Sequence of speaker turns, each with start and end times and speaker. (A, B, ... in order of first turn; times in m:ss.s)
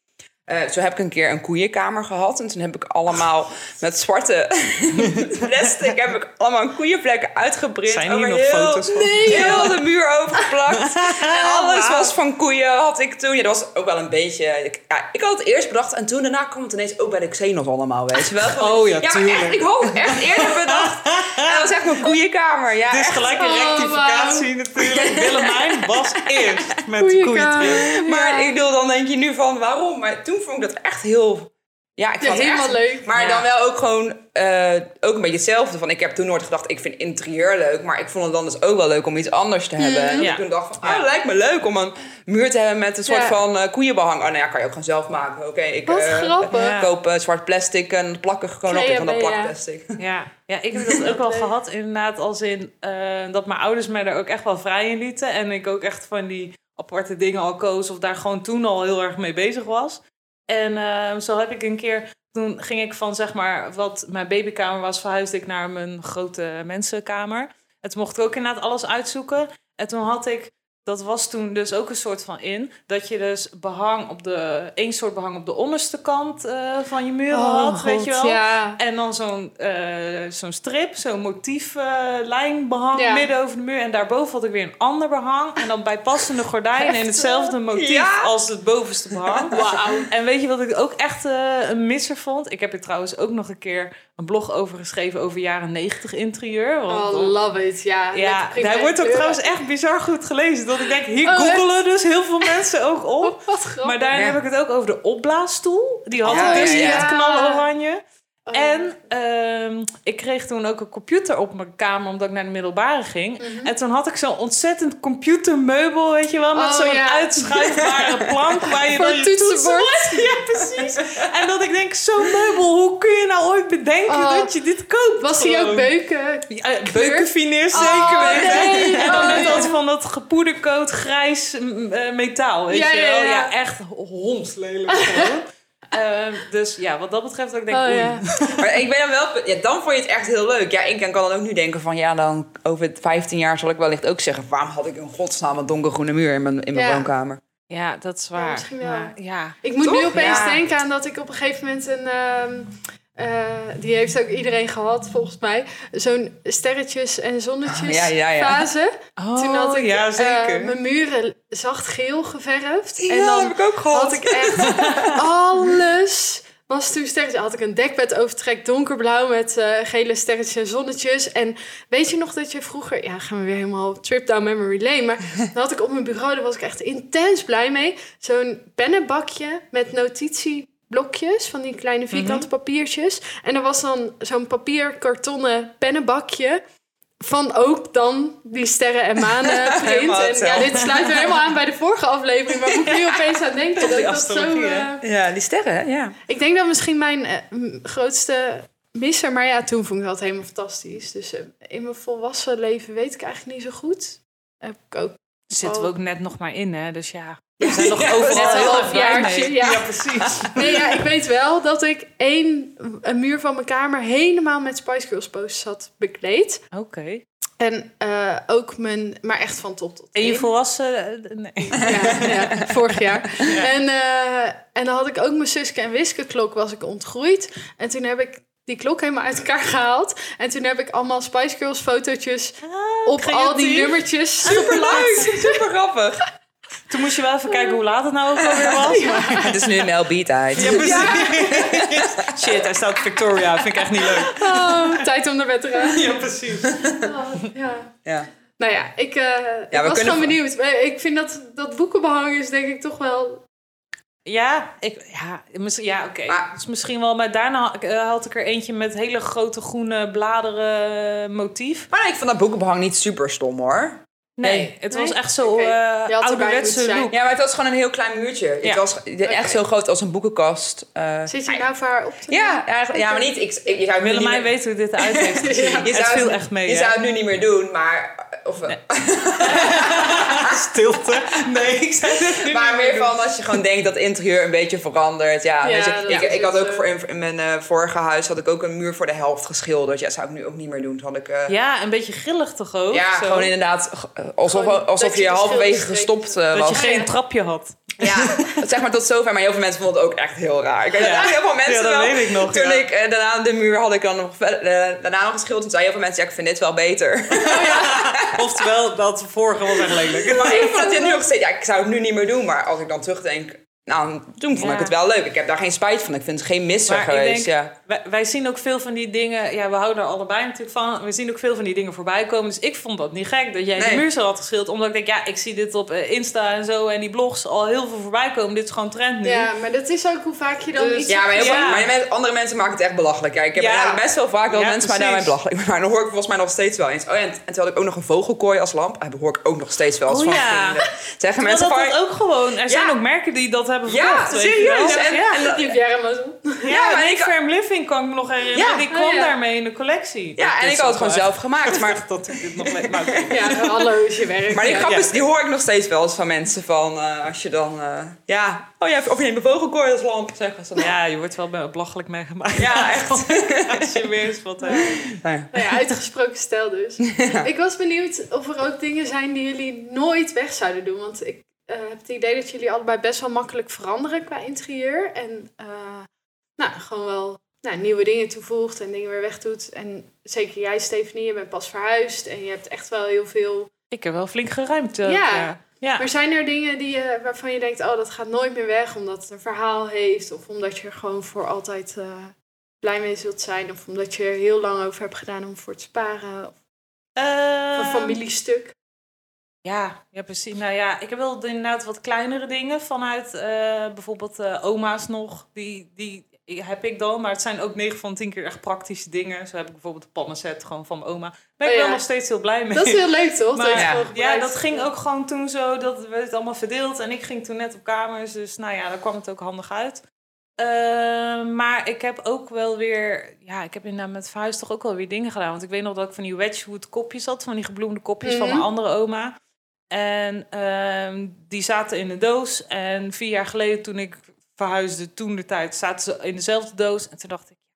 0:00.5-0:23.3 A
0:07.9-0:09.7 B
0:08.9-0:09.8 C
0:10.7-0:12.1 B
0:18.6-0:21.8 B
0:22.9-0:27.9 B
0:23.3-0:24.5 C
0:24.8-0:25.7 A
0:26.2-0:26.5 A
0:27.0-0:28.5 C
0:27.6-0:50.0 A
0:32.2-0:33.0 C
0:33.1-0:33.4 B
0:39.8-0:40.3 C
0:40.2-0:41.1 B
0:43.1-0:43.4 C
0:45.9-0:46.8 C
0:46.5-0:46.9 B
0:48.7-0:49.5 C
0:50.0-1:37.4 B
0:51.0-0:51.5 C
1:17.3-1:18.8 C
1:22.9-1:23.3 C
1:26.8-1:27.5 C
1:27.7-1:28.3 A
1:29.2-1:29.6 A
1:29.5-1:30.1 C
1:36.9-1:39.4 C
1:38.1-1:48.0 B
1:41.2-1:41.7 C
1:43.2-1:44.0 C
1:44.1-1:44.4 A
1:46.2-1:47.1 A
1:46.2-1:47.6 C
1:48.4-1:48.9 C
1:48.5-2:05.9 B
1:53.4-1:53.7 C
1:56.5-1:57.6 C
1:58.7-2:01.0 C
2:04.1-2:04.5 C
2:05.2-2:09.7 C
2:06.5-2:18.4 B
2:07.7-2:09.6 A
2:12.7-2:13.5 C
2:14.9-2:15.3 C
2:17.7-2:18.6 C
2:18.6-2:27.4 A
2:26.7-2:27.1 C
2:27.7-2:29.6 B
2:28.3-3:06.6 C
2:29.8-2:30.6 A
2:30.2-2:30.5 B
2:37.7-2:38.7 A
2:39.2-2:40.7 B
2:43.0-2:45.2 A
3:02.1-3:02.5 B
3:07.2-3:15.0 C
3:09.4-3:10.9 A
3:13.8-3:14.9 B
3:15.0-3:16.2 A
3:16.3-3:25.9 C
3:25.5-3:30.7 B
3:27.6-3:30.8 A
3:28.3-3:36.6 C
3:36.7-3:37.2 B
3:37.6-3:40.5 C
3:40.1-3:42.6 B
3:41.8-3:55.6 C
3:43.4-3:43.7 B
3:52.6-3:54.0 B
3:54.4-3:56.2 A
3:56.9-3:59.6 B
3:57.5-3:57.8 C
3:58.9-3:59.6 C
3:59.4-4:02.6 A
4:00.5-4:05.0 B
4:00.6-4:01.6 C
4:04.2-4:06.2 C
4:05.8-4:07.0 B
4:06.6-4:07.0 A
4:07.0-4:07.9 C
4:08.6-4:13.4 C
4:09.7-4:10.4 A
4:14.2-4:21.9 B
4:21.9-4:24.7 A
4:24.4-4:27.1 B
4:24.9-4:27.1 C
4:27.1-4:31.6 A
4:29.2-4:29.6 C
4:31.3-4:33.3 C
4:32.3-4:34.5 A
4:34.0-4:36.9 B
4:35.4-4:35.9 C
4:35.8-4:40.6 A
4:39.4-4:43.1 B
4:42.4-4:51.5 A
4:45.6-4:46.8 C
4:51.5-4:53.5 B
4:52.9-4:56.8 A
4:54.4-4:57.1 C
4:56.5-4:58.5 B
4:58.0-5:08.4 A
5:01.0-5:02.8 B
5:07.4-5:10.7 B
5:07.4-5:07.9 C
5:10.2-5:17.7 A
5:10.3-5:11.2 C
5:14.5-5:14.9 B
5:16.8-5:29.5 B
5:23.7-5:24.0 A
5:29.2-5:31.7 C
5:30.7-5:31.9 B
5:31.1-5:42.0 A
5:33.5-5:35.3 B
5:40.0-5:40.8 B
5:41.4-5:45.4 B
5:42.7-5:43.0 A
5:43.8-5:45.8 A
5:44.8-5:46.7 C
5:46.6-5:53.9 B
5:46.7-5:47.3 A
5:48.5-5:48.9 A
5:48.9-5:49.3 C
5:50.4-5:53.5 A
5:53.3-5:54.9 C
5:54.5-6:00.9 A
5:54.6-5:55.1 B
6:00.8-6:05.2 B
6:02.6-6:04.0 A
6:04.6-6:05.0 C
6:04.7-6:05.5 A
6:05.5-6:23.7 C
6:07.0-6:07.5 A
6:23.9-6:26.0 B
6:25.0-6:36.5 C
6:37.2-6:38.2 B
6:37.7-6:38.7 C
6:39.6-7:00.0 B
6:51.6-6:52.0 C
6:52.7-6:54.9 C
6:53.8-6:54.0 A
7:00.6-7:09.3 B
7:08.2-7:08.6 C
7:09.9-7:17.6 B